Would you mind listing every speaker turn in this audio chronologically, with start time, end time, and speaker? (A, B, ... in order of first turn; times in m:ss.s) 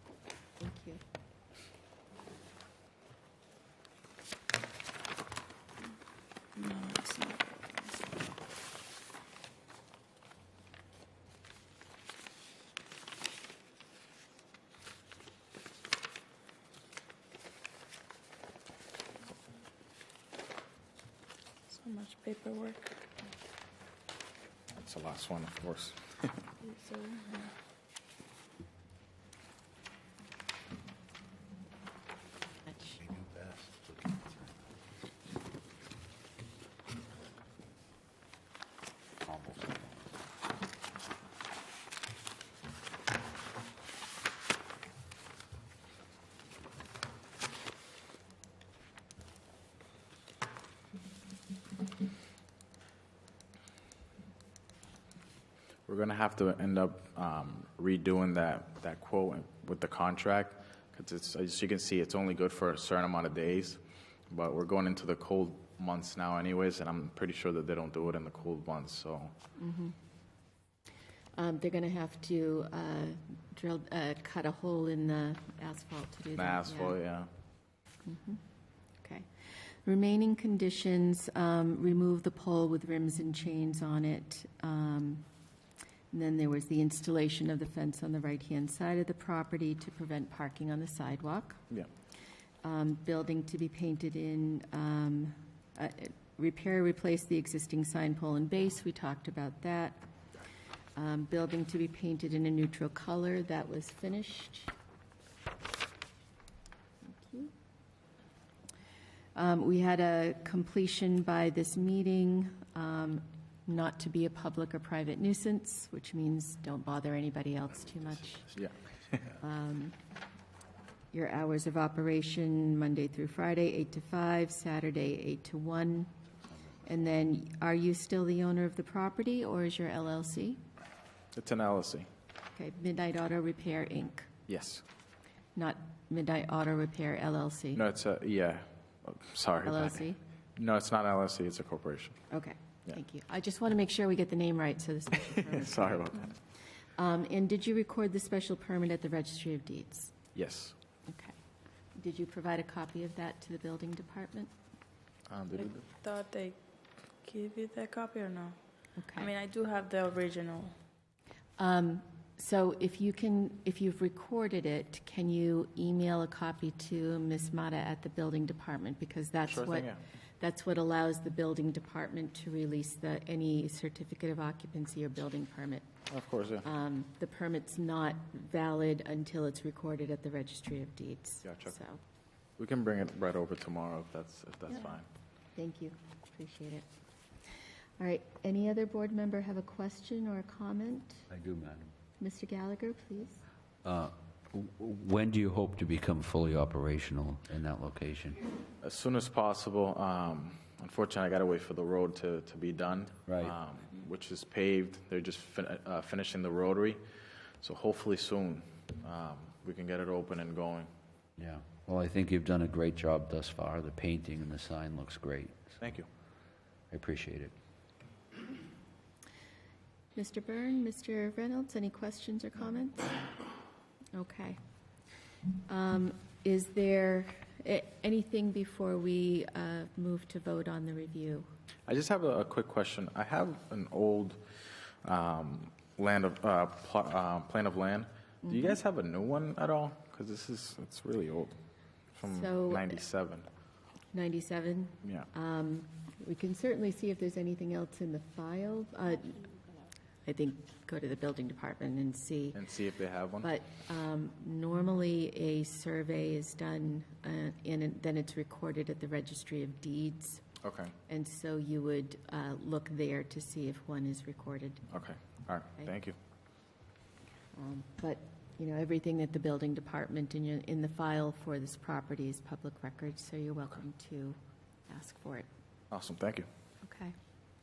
0:00.6-0:01.0 A
0:06.6-0:08.0 B
0:21.7-0:23.0 B
0:24.7-0:26.4 C
0:26.6-0:27.5 B
0:32.7-0:33.0 A
0:39.2-0:40.1 D
0:55.9-1:09.3 C
1:09.6-1:10.0 A
1:11.4-1:17.0 A
1:16.4-1:17.3 C
1:18.0-1:18.4 A
1:19.0-1:25.3 A
1:26.1-1:31.6 A
1:32.6-1:40.0 A
1:41.0-1:44.7 A
1:47.0-1:47.5 A
1:49.4-1:58.5 A
1:59.2-2:00.0 A
2:01.1-2:06.1 A
2:06.8-2:10.6 A
2:11.4-2:12.1 C
2:12.6-2:14.3 A
2:14.5-2:14.8 C
2:15.6-2:17.8 A
2:17.8-2:22.2 C
2:19.6-2:20.2 A
2:22.3-2:30.1 A
2:25.5-2:26.3 C
2:30.4-2:30.8 C
2:31.1-2:31.4 A
2:32.0-2:34.5 A
2:35.3-2:35.9 C
2:35.6-2:36.6 B
2:37.2-2:38.6 B
2:39.0-2:39.3 A
2:39.2-2:40.8 B
2:41.6-2:55.9 A
2:49.5-2:50.0 C
2:56.1-2:56.7 C
2:56.6-3:02.0 A
3:01.4-3:01.8 C
3:02.6-3:05.1 C
3:05.6-3:06.9 A
3:08.0-3:11.3 A
3:11.3-3:11.9 D
3:12.2-3:13.4 A
3:13.8-3:18.4 D
3:18.8-3:27.0 C
3:23.3-3:23.5 D
3:27.6-3:30.9 C
3:31.4-3:35.8 D
3:35.8-3:36.1 C
3:36.9-3:37.5 D
3:40.2-3:43.3 A
3:44.2-3:44.6 A
3:45.7-3:51.5 A
3:51.9-3:54.4 C
3:55.0-4:01.6 C
3:58.4-3:58.8 A
4:02.2-4:03.5 C
4:02.2-4:03.0 A
4:04.1-4:09.5 A
4:05.0-4:05.3 C
4:10.2-4:12.6 A
4:12.5-4:13.5 C
4:13.4-4:20.4 A
4:20.6-4:21.0 C
4:21.1-4:24.8 A
4:24.9-4:26.2 C
4:27.6-4:35.5 A
4:35.9-4:36.5 C
4:36.8-4:37.2 A